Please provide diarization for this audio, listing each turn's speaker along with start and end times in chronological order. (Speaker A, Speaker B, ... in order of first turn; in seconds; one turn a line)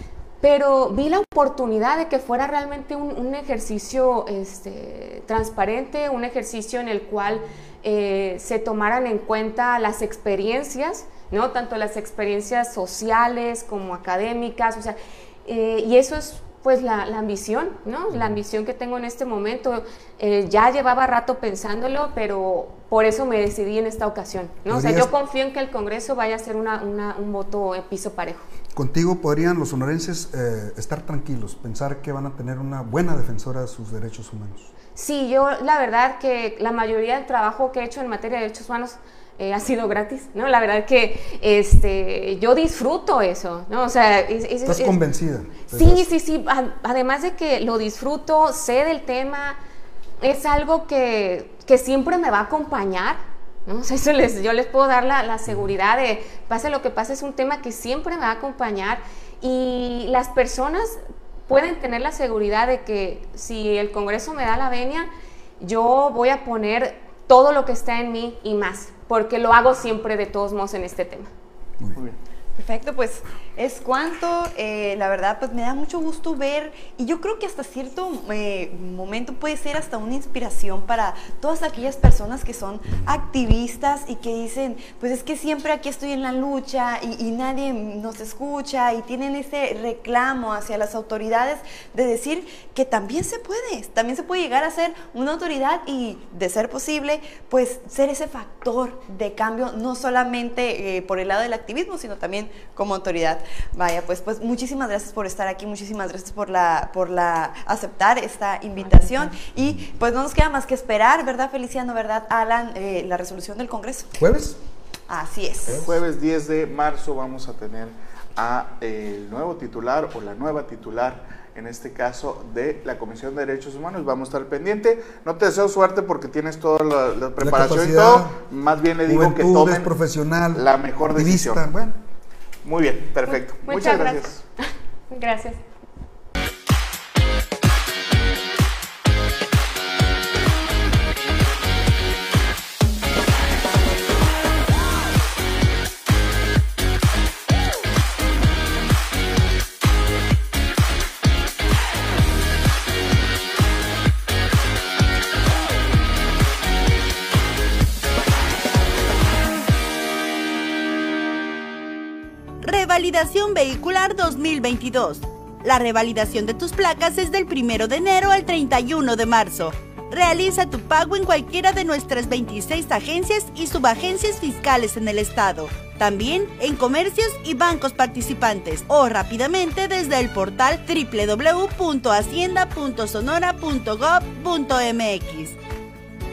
Speaker A: 0.4-28.4
Speaker B: 24.7-25.1
Speaker B: 28.7-34.7
Speaker A: 35.0-45.0
Speaker B: 44.6-46.0
Speaker A: 45.7-49.6
Speaker A: 50.2-65.1
Speaker A: 65.6-71.3
Speaker C: 72.6-114.1
Speaker B: 114.2-114.6
Speaker C: 115.1-115.8
Speaker D: 115.7-129.9
Speaker B: 127.4-128.4
Speaker B: 129.1-132.0
Speaker D: 130.5-131.6
Speaker D: 132.6-134.4
Speaker A: 133.3-135.6
Speaker E: 162.6-185.6